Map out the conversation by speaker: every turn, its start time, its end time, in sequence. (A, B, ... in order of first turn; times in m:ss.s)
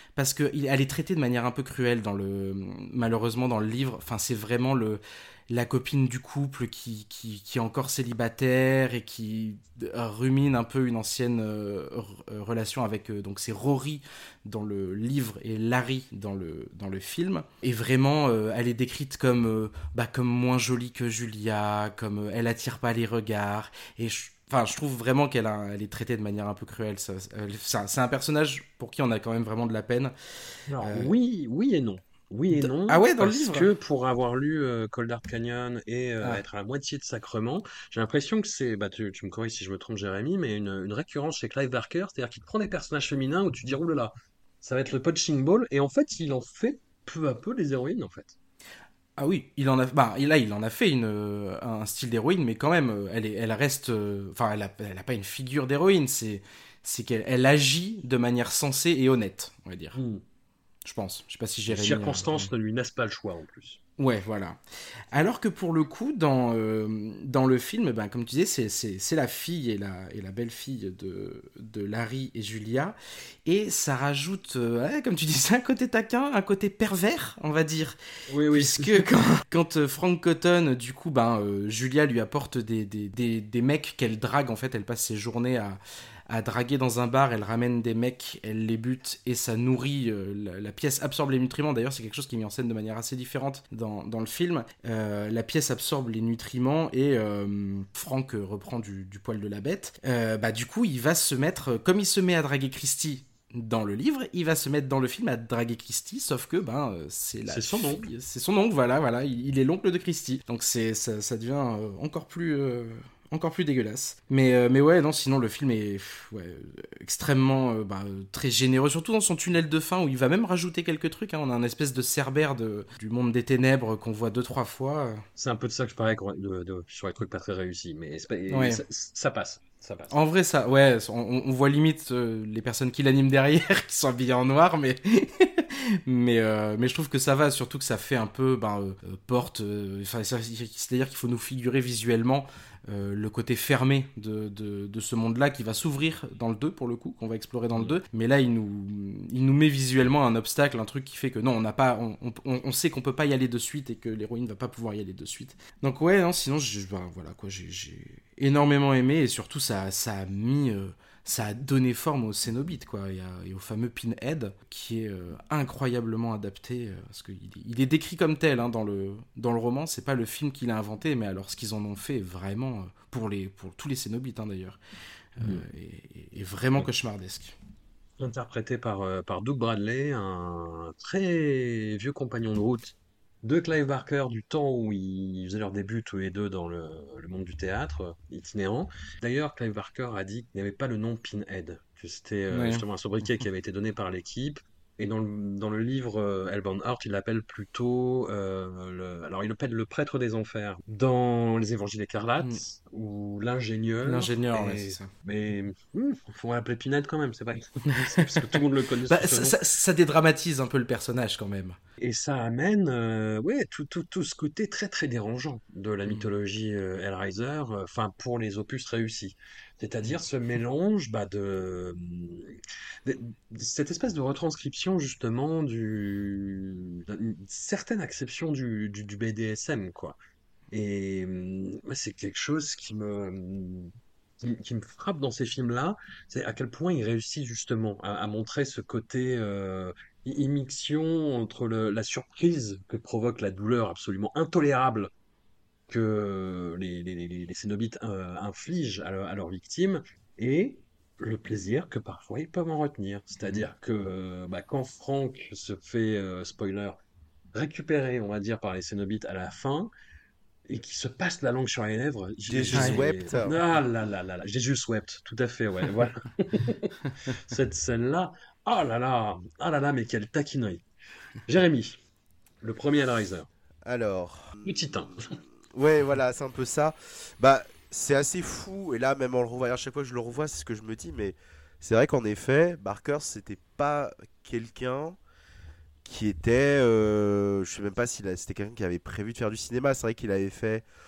0:00.2-0:30.1 A
0:30.7-0:48.4 B
0:30.8-0:31.1 A
0:32.5-0:33.7 A
0:49.2-1:00.0 A
0:59.9-1:00.2 B
1:00.8-1:02.5 A
1:01.7-1:03.8 B
1:04.0-1:04.6 A
1:05.1-1:18.0 A
1:18.3-1:19.0 B
1:18.5-2:05.2 A
1:47.5-1:48.1 B
2:05.4-2:10.1 B
2:08.5-2:08.8 A
2:10.1-2:54.8 A
2:55.4-2:57.6 A
2:58.2-3:29.6 B
3:12.5-3:12.8 A
3:24.0-3:25.1 A
3:29.1-3:31.8 A
3:32.0-3:50.2 B
3:50.7-4:05.1 B
4:05.9-4:17.0 B
4:17.5-4:19.9 B
4:20.7-4:30.8 B
4:22.4-4:23.6 C
4:22.7-4:23.0 A
4:31.4-4:32.0 B
4:32.6-4:33.5 B
4:33.8-4:35.1 C
4:34.6-4:35.3 B
4:35.7-4:45.2 C
4:46.0-4:50.8 C